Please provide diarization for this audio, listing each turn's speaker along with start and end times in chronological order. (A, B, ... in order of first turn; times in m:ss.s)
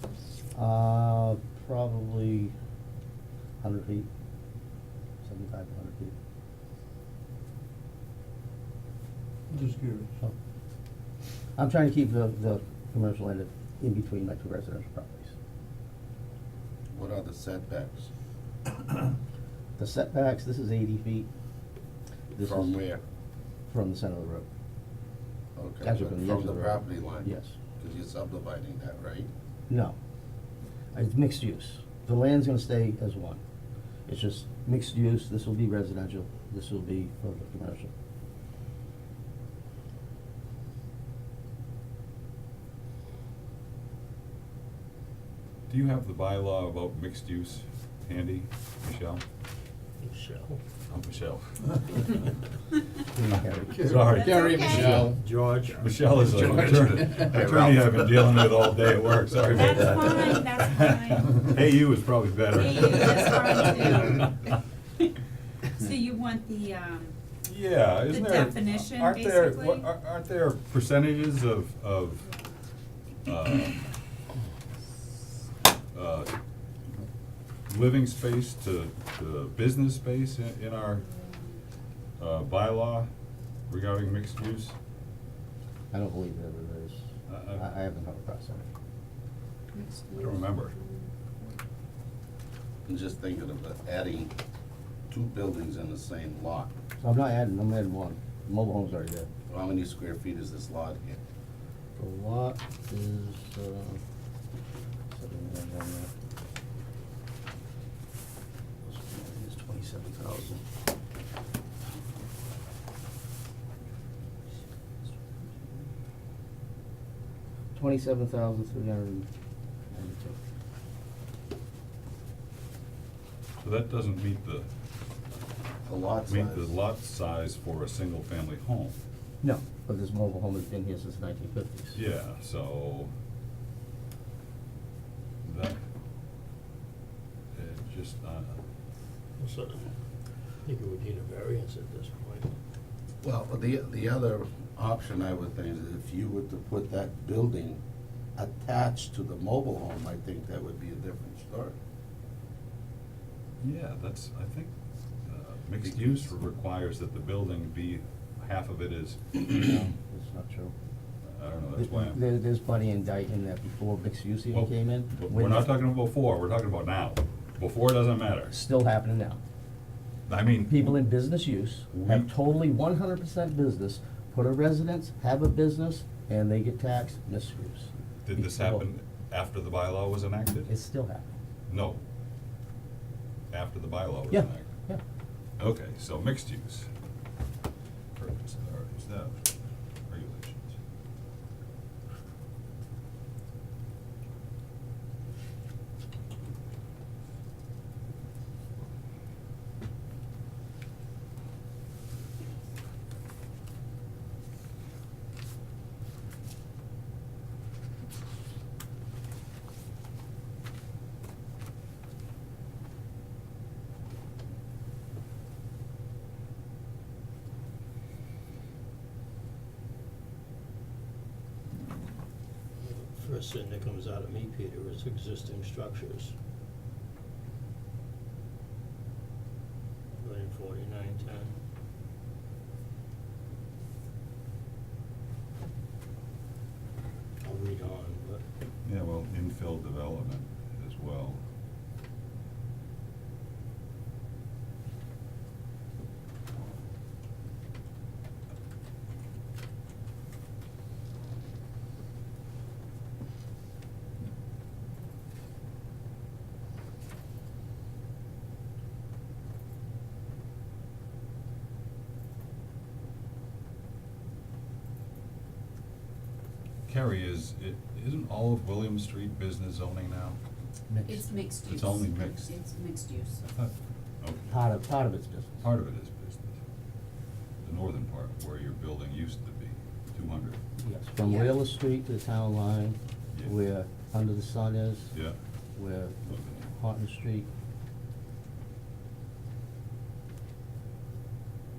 0:00.5-0:02.5 A
0:03.6-0:04.1 A
0:05.2-0:06.1 A
0:09.5-0:10.1 B
0:11.6-0:15.3 A
0:16.9-0:18.1 C
0:19.8-0:21.3 A
0:22.3-0:22.7 A
0:22.4-0:23.0 C
0:23.7-0:24.5 A
0:25.6-0:27.3 C
0:25.8-0:27.5 A
0:27.8-0:29.3 C
0:29.7-0:30.0 A
0:30.9-0:33.4 A
0:34.1-0:37.9 A
0:45.7-0:49.2 D
0:50.0-0:50.6 E
0:50.9-0:52.0 D
0:53.1-0:54.0 A
0:53.7-0:54.6 B
0:53.7-0:55.1 D
0:54.0-0:55.0 F
0:54.5-0:57.0 E
0:54.7-0:55.1 C
0:55.7-1:04.3 D
0:56.5-0:57.3 B
0:57.3-0:58.2 C
0:59.5-1:01.4 F
1:02.5-1:05.0 F
1:05.7-1:07.3 F
1:07.4-1:12.2 D
1:08.1-1:09.9 F
1:13.2-1:13.8 D
1:15.9-1:16.3 D
1:17.7-1:21.0 D
1:21.0-1:21.6 F
1:22.2-1:23.1 D
1:23.7-1:24.7 D
1:25.9-1:28.7 A
1:27.3-1:27.6 D
1:29.7-1:31.6 F
1:30.1-1:30.7 D
1:32.8-1:34.3 C
1:35.1-1:36.7 C
1:37.0-1:39.3 A
1:39.5-1:41.2 C
1:42.0-1:44.0 A
1:45.1-1:46.1 A
1:48.8-1:50.6 A
1:57.7-1:59.3 A
1:59.9-2:00.4 A
2:03.6-2:04.7 D
2:05.8-2:06.8 C
2:06.3-2:09.0 D
2:09.4-2:12.0 A
2:11.9-2:13.1 D
2:15.4-2:15.8 D
2:17.5-2:18.5 D
2:19.4-2:20.0 E
2:20.6-2:22.5 E
2:23.2-2:27.8 C
2:28.4-2:31.8 C
2:33.6-2:34.7 D
2:35.2-2:39.5 D
2:39.5-2:40.7 A
2:41.3-2:42.2 D
2:41.8-2:45.7 A
2:44.5-2:48.5 D
2:48.5-2:49.4 A
2:50.3-2:51.0 D
2:50.7-2:58.8 A
2:51.9-2:52.3 D
2:58.2-3:00.7 D
3:00.7-3:01.3 A
3:01.7-3:02.0 D
3:03.5-3:04.8 D
3:04.3-3:05.0 A
3:05.6-3:06.9 D
3:08.2-3:09.4 D
3:10.1-3:10.8 D
3:42.8-3:46.3 E
3:50.2-3:51.5 E
3:57.4-3:58.4 E
3:58.8-4:01.4 D
4:26.9-4:30.4 D
4:30.9-4:32.6 D
4:31.0-4:33.5 F
4:33.6-4:34.5 D
4:34.5-4:35.6 A
4:35.6-4:36.5 D
4:37.6-4:40.6 D
4:40.8-4:45.1 A
4:41.2-4:41.5 F
4:45.7-4:47.5 A